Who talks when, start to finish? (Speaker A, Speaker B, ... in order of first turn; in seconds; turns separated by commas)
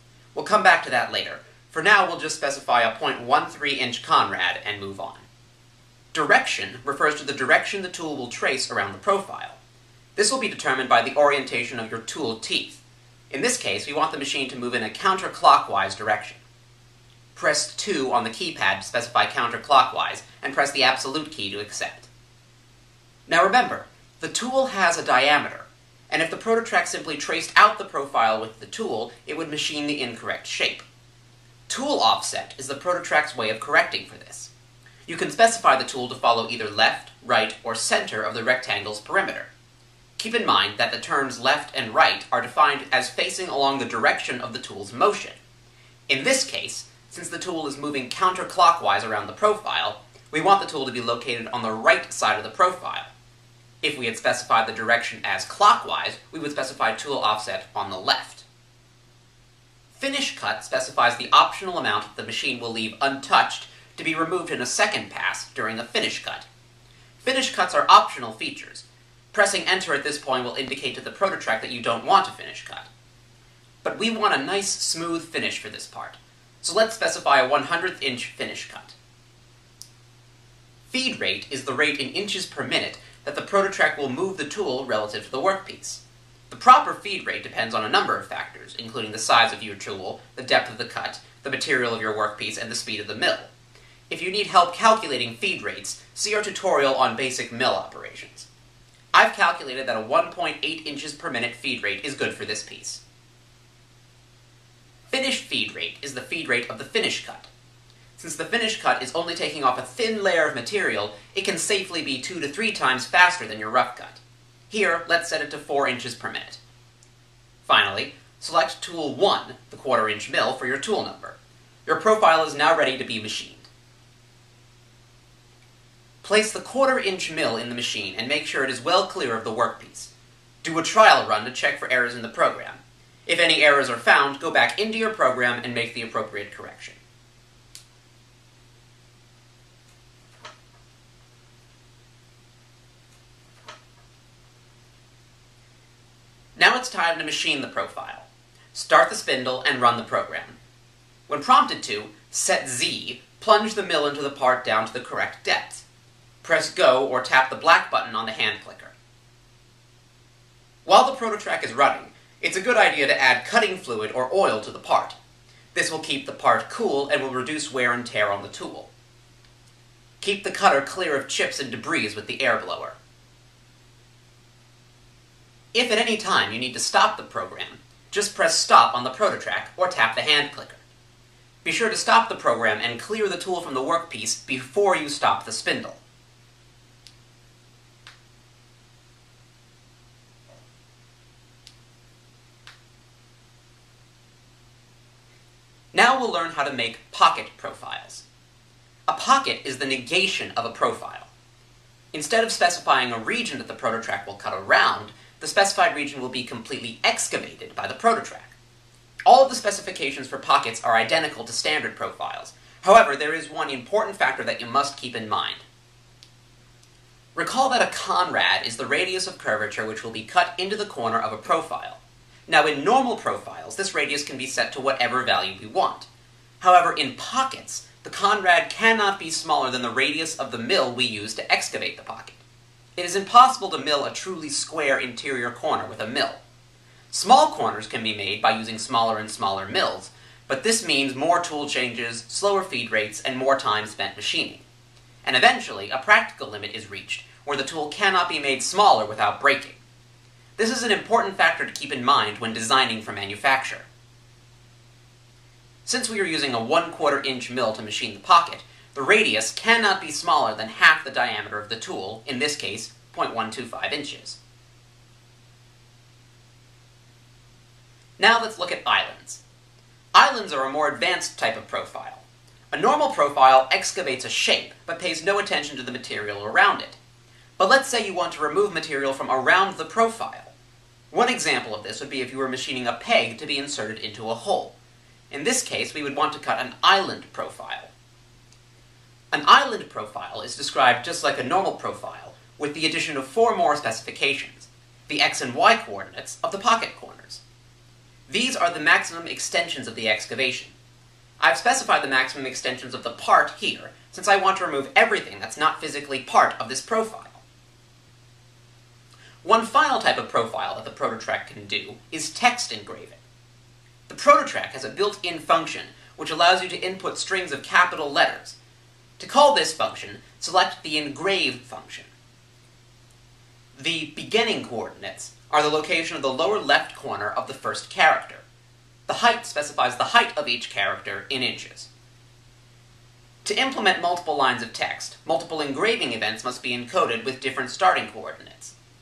Speaker A: 0.3-5.2, Speaker A: 6.1-9.6, Speaker A: 10.2-16.4, Speaker A: 17.3-22.1, Speaker A: 23.3-30.9, Speaker A: 31.7-34.5, Speaker A: 35.0-39.5, Speaker A: 40.2-45.4, Speaker A: 46.1-53.1, Speaker A: 53.8-58.4, Speaker A: 59.9-66.5, Speaker A: 67.2-72.9, Speaker A: 73.8-79.0, Speaker A: 80.9-93.5, Speaker A: 94.1-98.5, Speaker A: 99.1-103.0, Speaker A: 105.1-107.5, Speaker A: 108.2-116.6, Speaker A: 117.6-123.7, Speaker A: 126.2-130.1, Speaker A: 130.6-137.0, Speaker A: 146.6-150.6, Speaker A: 151.3-155.8, Speaker A: 156.4-158.9, Speaker A: 160.8-165.2, Speaker A: 165.7-168.9, Speaker A: 170.2-173.0, Speaker A: 175.7-180.8, Speaker A: 181.6-186.0, Speaker A: 195.9-198.2, Speaker A: 199.1-201.3, Speaker A: 202.1-208.5, Speaker A: 209.3-215.6, Speaker A: 217.3-226.1, Speaker A: 226.6-232.4, Speaker A: 233.0-236.4, Speaker A: 237.1-244.6, Speaker A: 245.2-249.8, Speaker A: 250.6-253.9, Speaker A: 255.8-264.4, Speaker A: 268.2-269.4, Speaker A: 270.1-277.0, Speaker A: 277.6-280.5, Speaker A: 281.1-284.7, Speaker A: 285.3-287.9, Speaker A: 289.3-297.4, Speaker A: 298.3-300.7, Speaker A: 301.4-307.4, Speaker A: 309.4-313.2, Speaker A: 314.1-318.6, Speaker A: 319.2-322.1, Speaker A: 323.7-328.4, Speaker A: 329.1-331.9, Speaker A: 333.4-338.7